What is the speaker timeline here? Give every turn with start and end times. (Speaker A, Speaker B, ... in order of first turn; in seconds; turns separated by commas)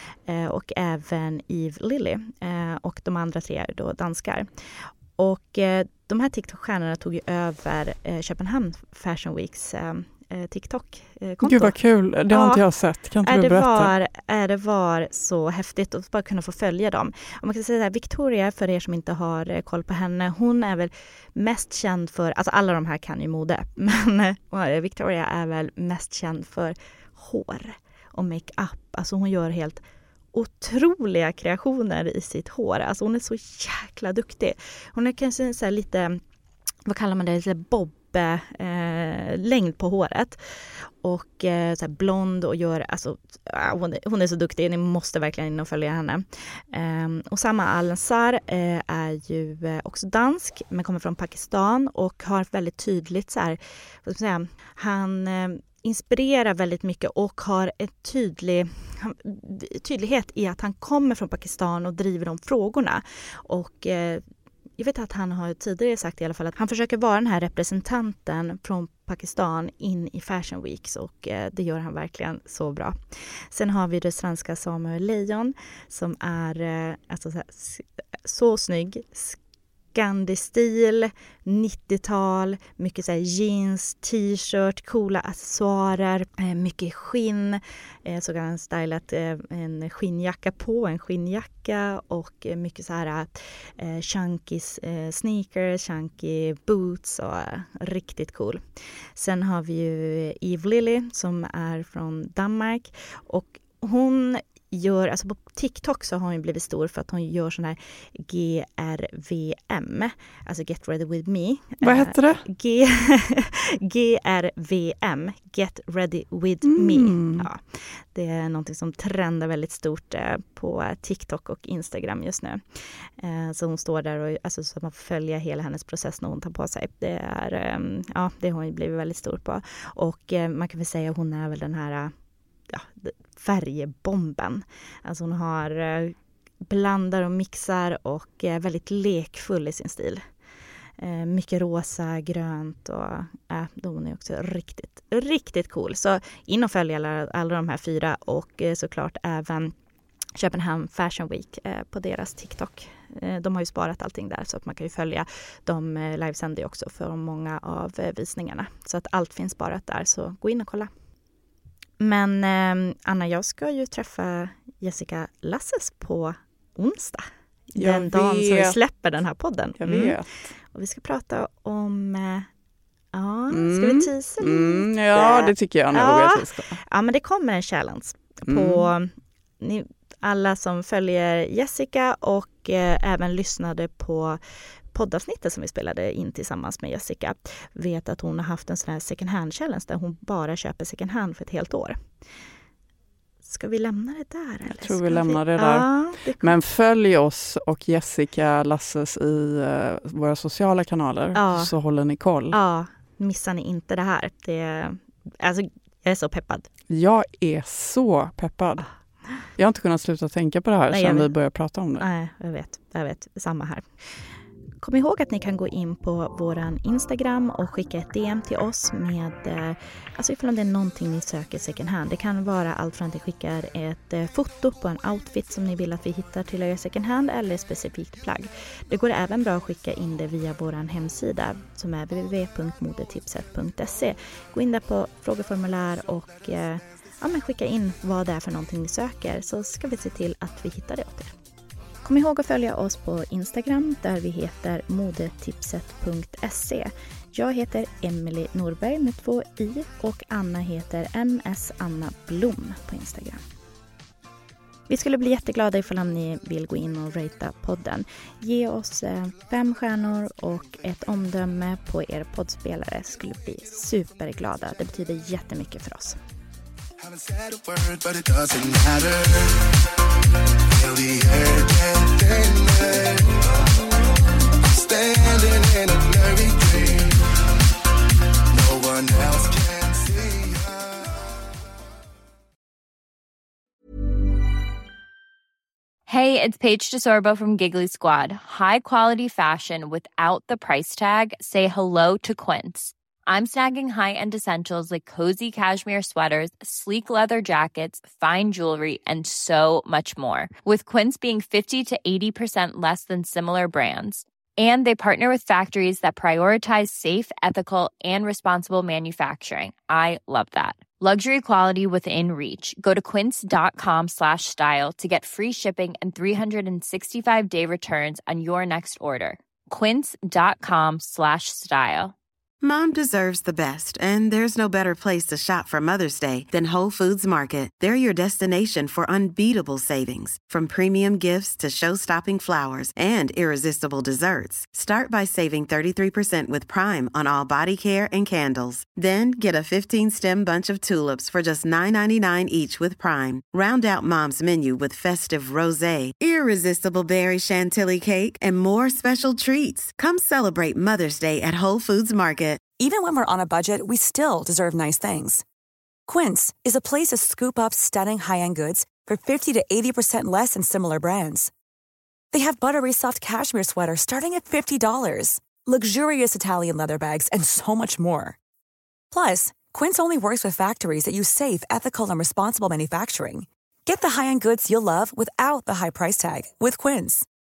Speaker A: 0.2-11.8, Speaker B: 11.4-13.9, Speaker A: 12.3-12.6, Speaker A: 13.2-29.8, Speaker A: 30.3-36.2, Speaker A: 36.9-64.2, Speaker A: 64.8-79.4, Speaker A: 79.9-98.6, Speaker A: 99.2-132.1, Speaker B: 111.8-112.4, Speaker B: 116.6-117.5, Speaker A: 132.7-140.2, Speaker A: 141.0-149.7, Speaker A: 150.3-160.9, Speaker A: 162.0-170.2, Speaker B: 167.7-168.8, Speaker B: 169.8-170.5, Speaker A: 170.7-172.5, Speaker A: 173.1-184.4, Speaker B: 173.5-176.8, Speaker B: 178.4-178.9, Speaker A: 184.9-192.0, Speaker A: 193.4-196.5, Speaker B: 194.7-202.6, Speaker A: 201.3-201.7, Speaker A: 202.5-206.7, Speaker B: 206.9-208.9, Speaker B: 209.6-212.1, Speaker A: 210.9-211.3, Speaker A: 212.0-213.9, Speaker A: 214.8-241.3, Speaker A: 242.0-253.4, Speaker A: 254.9-266.2, Speaker C: 267.0-269.7, Speaker C: 270.7-274.0, Speaker C: 274.7-277.2, Speaker C: 278.5-281.1, Speaker D: 286.1-322.1, Speaker E: 322.6-352.6, Speaker F: 352.8-355.4, Speaker F: 356.1-361.5, Speaker F: 362.3-368.4, Speaker F: 369.1-377.2